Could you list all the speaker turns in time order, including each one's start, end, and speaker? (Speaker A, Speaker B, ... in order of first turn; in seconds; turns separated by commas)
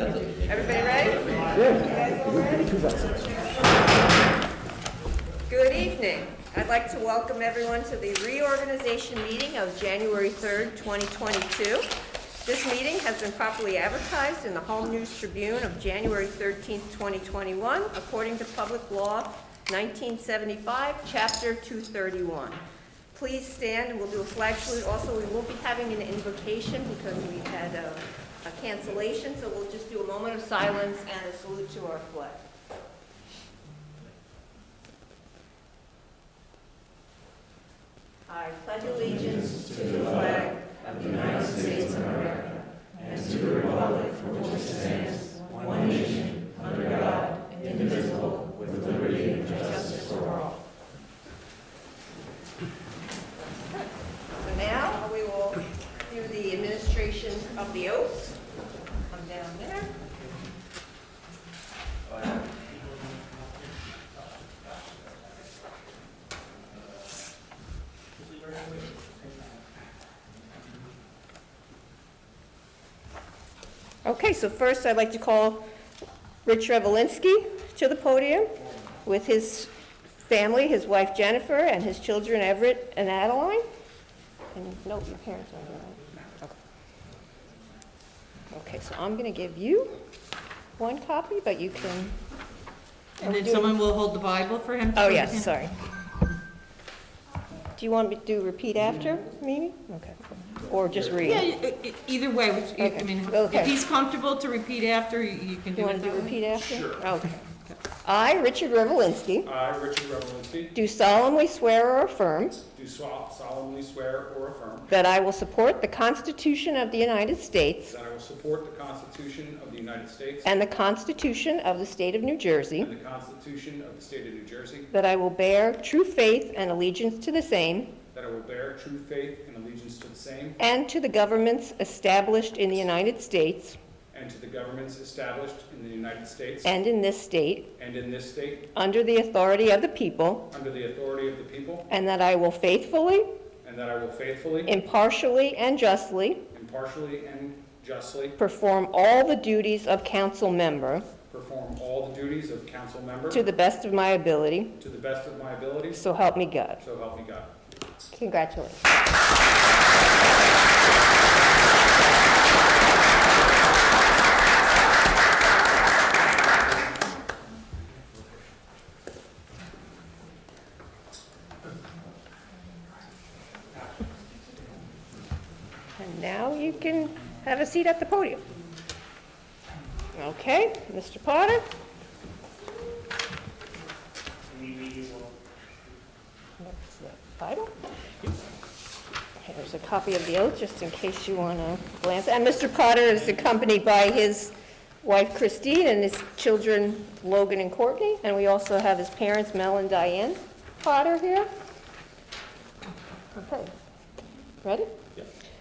Speaker A: 0.3-3.7, Speaker A: 5.5-11.9, Speaker A: 12.4-22.6, Speaker A: 23.1-32.4, Speaker A: 38.3-50.6, Speaker A: 54.4-58.4, Speaker A: 59.1-59.9, Speaker B: 68.4-69.0, Speaker A: 74.0-75.7, Speaker A: 76.4-79.7, Speaker A: 80.2-83.6, Speaker A: 84.5-86.5, Speaker A: 88.5-90.0, Speaker A: 90.8-92.2, Speaker A: 93.2-93.8, Speaker B: 93.2-95.5, Speaker A: 94.9-95.7, Speaker A: 97.7-101.5, Speaker B: 101.3-106.3, Speaker A: 102.8-103.8, Speaker A: 105.8-107.4, Speaker C: 106.5-107.0, Speaker A: 108.0-109.5, Speaker C: 109.4-110.7, Speaker A: 110.7-112.6, Speaker C: 112.7-114.9, Speaker A: 114.9-118.0, Speaker C: 117.9-120.5, Speaker A: 120.4-122.9, Speaker C: 122.8-124.9, Speaker A: 124.9-128.0, Speaker C: 128.1-130.6, Speaker A: 130.6-133.8, Speaker C: 134.1-136.7, Speaker A: 136.6-137.7, Speaker C: 137.8-138.7, Speaker A: 138.7-140.5, Speaker C: 140.5-141.9, Speaker A: 141.9-143.3, Speaker C: 143.6-144.8, Speaker A: 144.7-146.4, Speaker C: 146.5-148.4, Speaker A: 148.4-151.1, Speaker C: 151.3-153.5, Speaker A: 153.3-154.8, Speaker C: 154.8-156.0, Speaker A: 155.9-156.8, Speaker C: 156.8-157.5, Speaker A: 158.1-158.8, Speaker A: 176.0-178.4, Speaker A: 180.1-181.7, Speaker B: 184.5-185.3, Speaker A: 186.6-187.7, Speaker A: 189.4-201.5, Speaker A: 203.3-203.7, Speaker A: 204.6-204.9